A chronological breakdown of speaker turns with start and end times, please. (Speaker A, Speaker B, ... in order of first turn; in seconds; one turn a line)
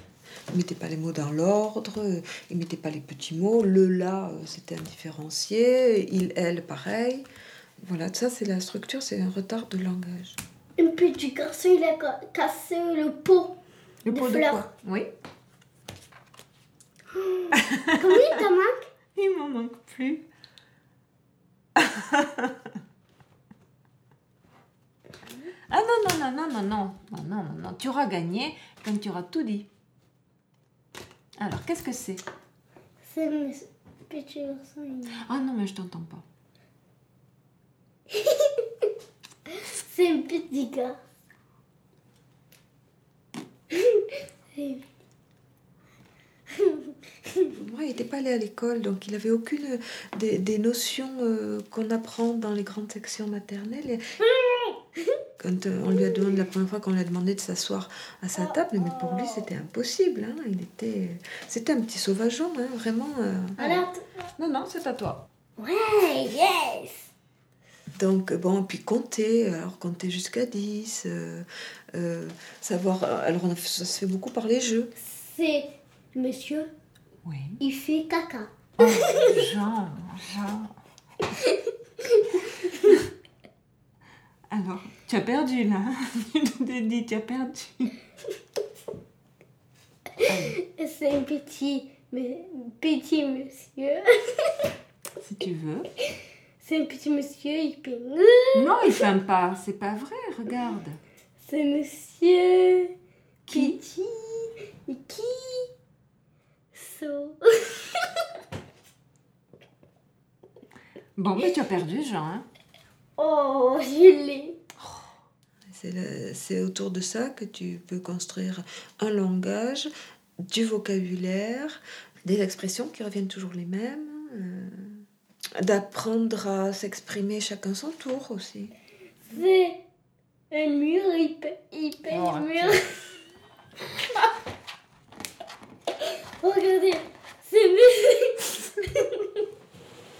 Speaker A: 0.5-7.3
Speaker A: 7.8-10.4
Speaker B: 10.8-13.6
Speaker C: 14.0-15.1
Speaker B: 14.1-14.7
Speaker B: 17.1-18.8
Speaker C: 17.7-18.1
Speaker C: 19.1-20.2
Speaker C: 21.8-22.5
Speaker C: 25.7-29.7
Speaker C: 31.4-32.2
Speaker B: 33.0-35.2
Speaker C: 35.2-36.2
Speaker B: 38.1-38.9
Speaker B: 39.5-41.0
Speaker B: 43.7-44.8
Speaker B: 46.5-47.5
Speaker A: 47.5-54.0
Speaker B: 54.2-55.2
Speaker A: 55.4-63.6
Speaker B: 58.4-59.5
Speaker C: 63.6-63.8
Speaker B: 63.6-64.0
Speaker C: 64.4-65.2
Speaker B: 65.6-67.1
Speaker A: 67.9-74.9
Speaker B: 75.0-76.7
Speaker C: 77.2-77.6
Speaker B: 77.6-79.3
Speaker C: 78.8-80.7
Speaker B: 82.0-82.7
Speaker C: 84.5-88.0
Speaker C: 90.3-90.6
Speaker B: 90.4-94.7
Speaker C: 95.2-95.9
Speaker B: 96.6-98.9
Speaker C: 98.5-101.0
Speaker B: 101.4-102.9
Speaker C: 103.5-104.4
Speaker B: 103.5-103.8
Speaker B: 104.8-105.7
Speaker B: 106.7-108.2
Speaker C: 111.2-112.4
Speaker B: 113.2-114.6
Speaker C: 114.8-115.0
Speaker A: 115.7-119.9
Speaker A: 120.5-125.0
Speaker A: 125.6-128.7
Speaker B: 129.3-129.8
Speaker B: 130.5-133.1
Speaker C: 132.1-132.8
Speaker B: 136.0-139.4